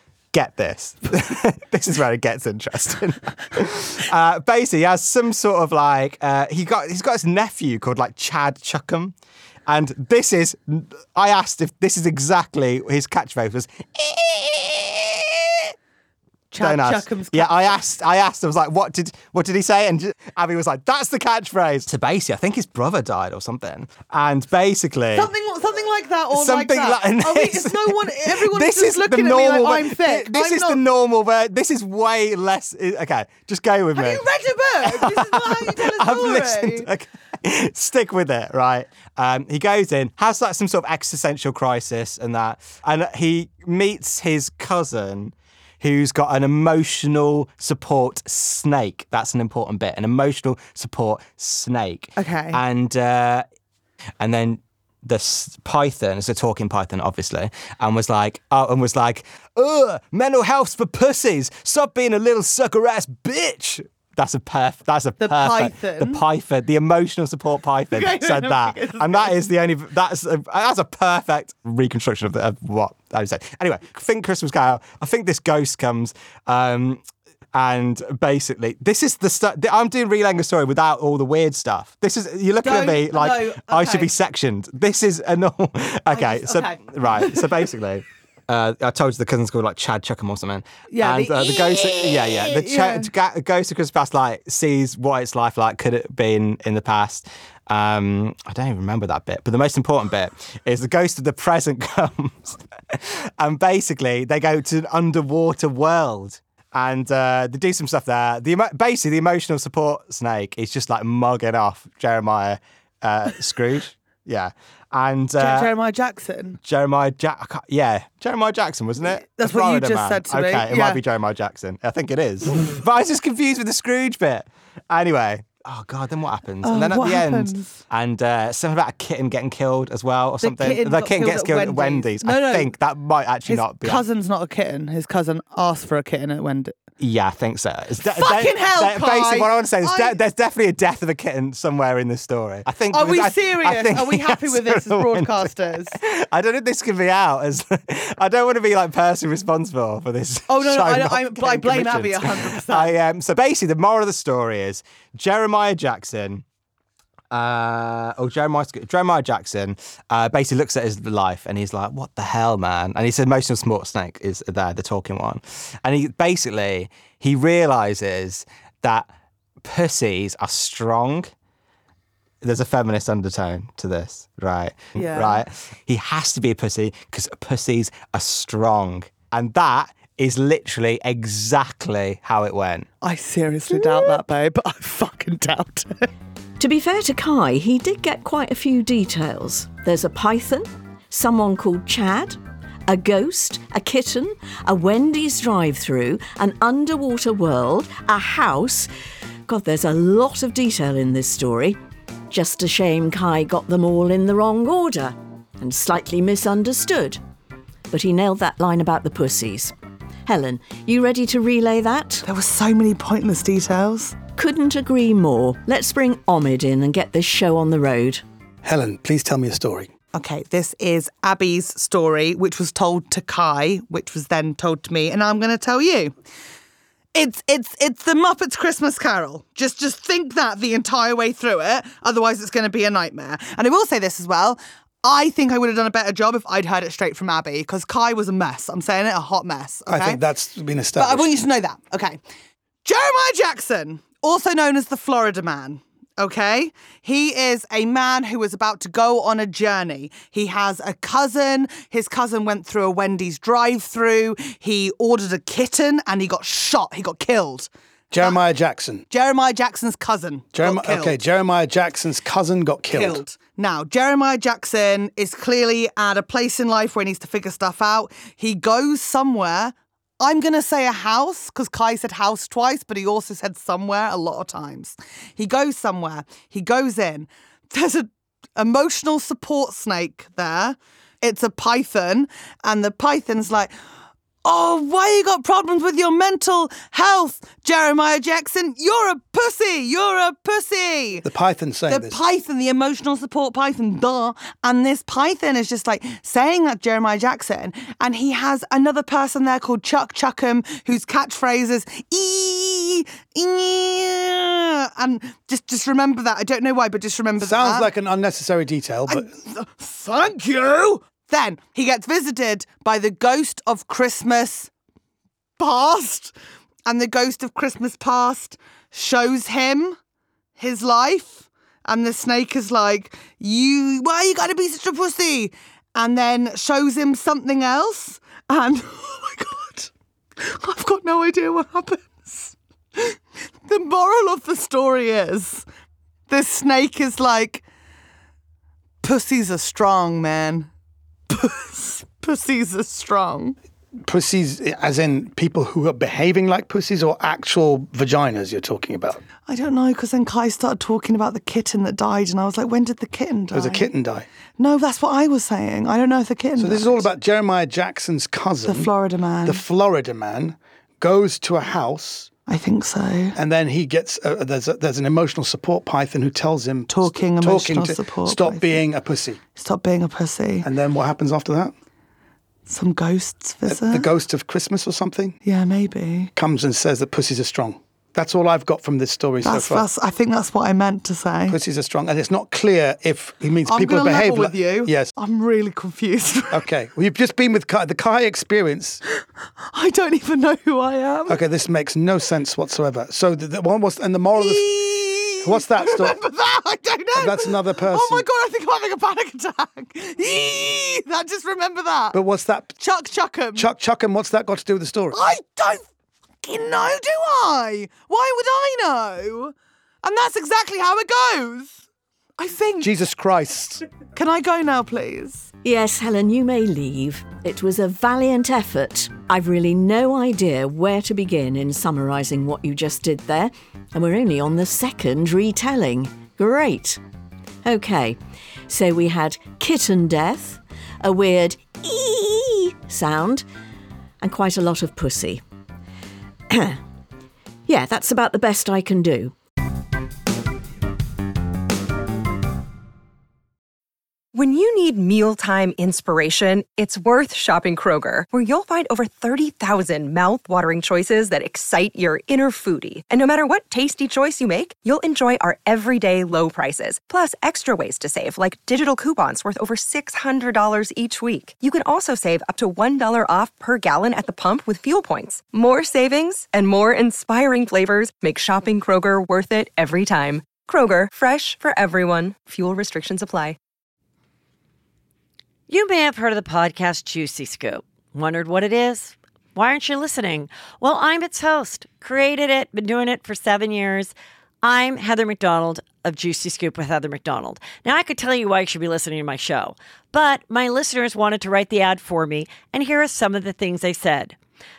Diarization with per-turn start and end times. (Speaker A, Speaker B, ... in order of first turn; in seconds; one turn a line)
Speaker A: 0.3-9.1
Speaker A: 9.7-15.7
Speaker B: 16.5-17.8
Speaker A: 16.6-25.3
Speaker B: 25.1-30.8
Speaker A: 26.3-34.2
Speaker B: 33.9-36.9
Speaker A: 34.8-53.4
Speaker B: 52.1-52.6
Speaker A: 54.2-115.7
Speaker B: 65.2-66.2
Speaker B: 67.9-69.4
Speaker B: 82.6-84.1
Speaker B: 86.1-87.6
Speaker B: 90.9-93.1
Speaker B: 115.4-116.6
Speaker A: 116.6-134.0
Speaker B: 119.3-121.0
Speaker B: 126.6-127.8
Speaker B: 130.4-132.7
Speaker B: 133.4-136.8
Speaker A: 137.0-156.4
Speaker B: 138.1-140.2
Speaker B: 142.9-145.9
Speaker B: 150.5-152.9
Speaker A: 157.3-169.1
Speaker A: 169.6-171.3
Speaker A: 172.4-182.9
Speaker B: 175.0-175.4
Speaker B: 183.0-186.1
Speaker C: 186.6-198.9
Speaker C: 199.5-201.8
Speaker C: 202.3-207.2
Speaker C: 207.9-209.7
Speaker C: 210.2-212.2
Speaker B: 212.2-214.2
Speaker C: 214.3-218.2
Speaker D: 218.6-219.9
Speaker B: 220.1-226.1
Speaker B: 227.1-240.2
Speaker D: 239.9-241.3
Speaker B: 240.9-242.2
Speaker B: 242.8-258.4
Speaker D: 258.1-259.0
Speaker B: 259.1-261.2
Speaker D: 260.5-263.2
Speaker B: 262.9-283.7
Speaker B: 284.4-291.2
Speaker D: 291.2-292.2
Speaker B: 291.9-307.9
Speaker D: 307.4-309.3
Speaker B: 309.1-314.7
Speaker B: 315.6-316.3
Speaker B: 316.9-320.0
Speaker B: 320.6-335.6
Speaker B: 336.3-337.6
Speaker B: 339.0-340.7
Speaker B: 341.3-343.6
Speaker D: 344.0-349.2
Speaker B: 349.4-353.9
Speaker D: 353.5-354.3
Speaker B: 354.6-357.0
Speaker D: 356.6-358.9
Speaker B: 358.6-359.6
Speaker D: 359.4-362.3
Speaker B: 362.5-363.4
Speaker D: 363.3-369.4
Speaker B: 366.9-368.8
Speaker B: 369.6-370.7
Speaker D: 370.6-371.7
Speaker B: 372.7-374.1
Speaker D: 373.7-375.4
Speaker B: 375.4-376.3
Speaker D: 376.4-379.9
Speaker B: 379.4-381.6
Speaker D: 381.5-385.1
Speaker B: 383.7-386.6
Speaker D: 386.5-389.0
Speaker B: 389.7-391.4
Speaker D: 391.3-396.1
Speaker B: 394.4-402.2
Speaker D: 397.1-398.2
Speaker D: 402.1-402.8
Speaker B: 402.8-403.7
Speaker D: 403.5-405.2
Speaker B: 405.1-405.9
Speaker B: 406.4-411.8
Speaker B: 412.4-412.9
Speaker D: 412.8-413.8
Speaker B: 414.1-415.5
Speaker C: 415.6-427.0
Speaker C: 427.6-433.4
Speaker C: 434.2-435.4
Speaker C: 436.5-436.8
Speaker C: 437.7-439.3
Speaker E: 444.3-473.6
Speaker F: 475.7-494.4